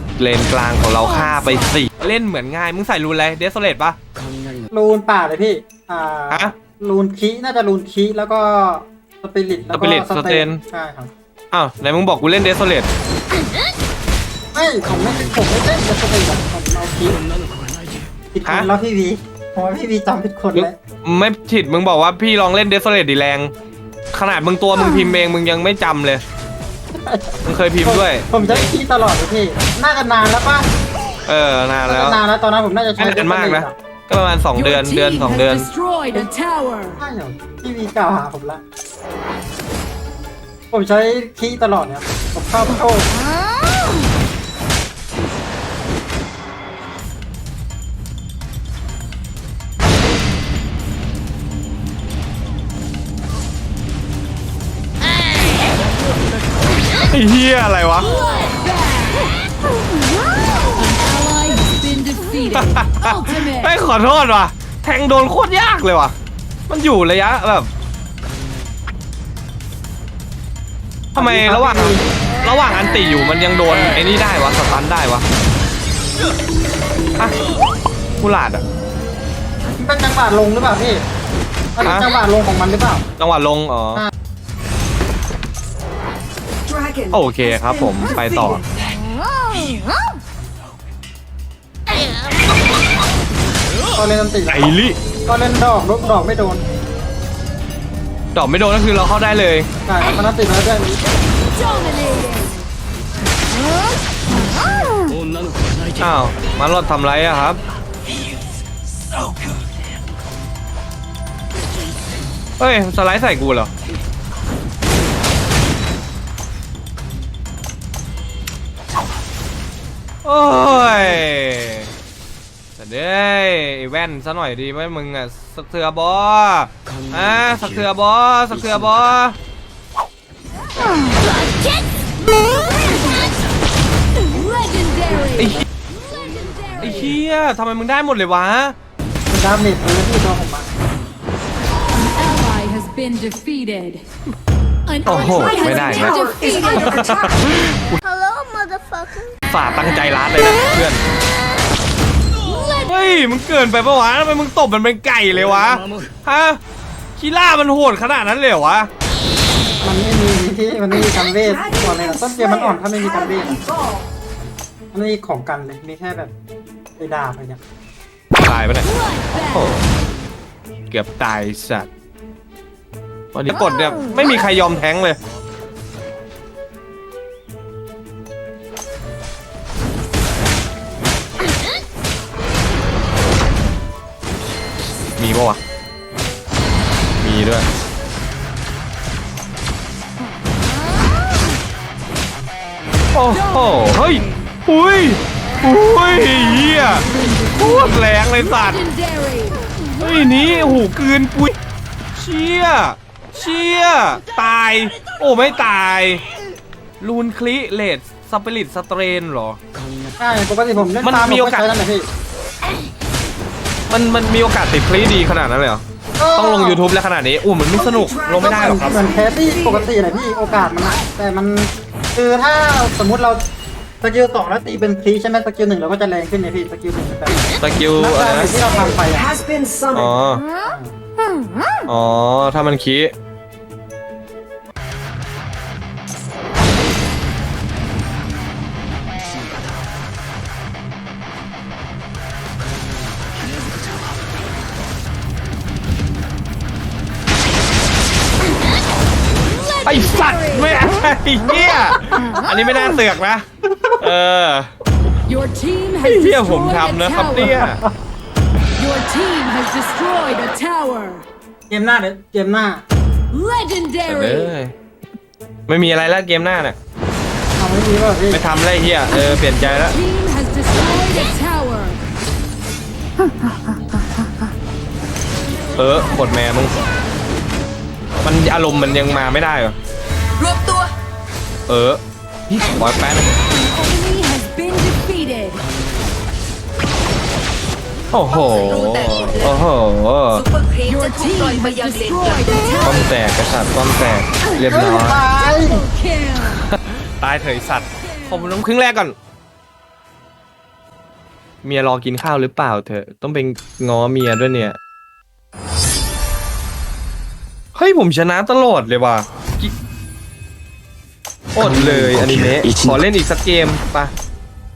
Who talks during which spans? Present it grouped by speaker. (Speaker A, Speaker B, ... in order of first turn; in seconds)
Speaker A: 0.2-4.0, 9.7-10.6, 11.5-12.9, 20.5-23.5, 24.1-26.2, 27.4-28.7, 31.3-32.2, 33.0-35.7, 57.1-58.2, 62.5-66.2, 66.7-67.7, 71.2-75.2, 78.2-78.6, 81.8-82.1, 83.2-84.1, 87.1-88.6, 94.5-95.0, 98.3-99.7, 106.0-107.6, 112.6-113.7, 120.2-121.9, 122.8-129.4, 135.4-135.7, 136.8-138.8, 145.1-148.0, 149.5-151.0, 152.9-156.6, 157.2-158.9, 168.4-168.9, 169.5-169.8, 170.9-171.9, 173.3-175.2, 185.2-185.6, 187.2-187.7, 193.2-198.8, 200.0-201.6, 202.2-206.2, 207.0-209.6, 211.0-211.7, 213.9-215.8, 216.3-219.0, 227.6-228.5, 229.9-230.4, 231.9-233.1, 249.9-253.5, 254.0-254.7, 256.0-257.8, 264.1-264.7, 265.7-266.8, 268.3-270.0, 275.8-276.8, 278.2-279.8, 281.7-282.0, 282.6-283.3, 288.1-290.4, 292.8-295.2, 296.4-299.1, 301.6-304.8, 307.8-309.7, 311.6-314.1
Speaker B: 1.2-1.6, 34.6-37.0, 58.1-59.3, 60.7-63.7, 102.0-102.3, 134.3-135.4, 136.3-136.8, 142.0-144.0, 144.9-146.9, 168.9-169.7, 197.2-197.8, 198.7-199.7, 249.9-250.7, 255.3-257.6, 258.8-261.2, 263.3-264.5, 269.9-272.0, 283.7-285.6, 290.9-292.9, 295.8-296.5
Speaker C: 4.7-11.1, 14.5-17.2, 18.3-20.8, 27.0-30.7, 31.9-33.7, 37.0-38.6, 40.7-43.1, 71.2-72.0, 79.8-81.0, 81.8-83.0, 94.0-94.7, 95.3-96.6, 99.9-101.0, 139.3-140.7, 159.8-163.6, 164.9-166.3, 167.0-167.6, 210.2-212.1, 216.2-216.8, 218.4-223.4, 224.0-227.4, 227.9-229.3, 230.6-230.9, 257.4-257.9, 261.7-262.8, 267.6-268.4, 294.6-295.9
Speaker D: 86.7-88.6, 145.1-147.4, 161.0-164.1, 217.7-219.9, 228.5-230.2
Speaker E: 148.2-149.2, 280.4-280.9, 288.5-289.3, 290.6-292.1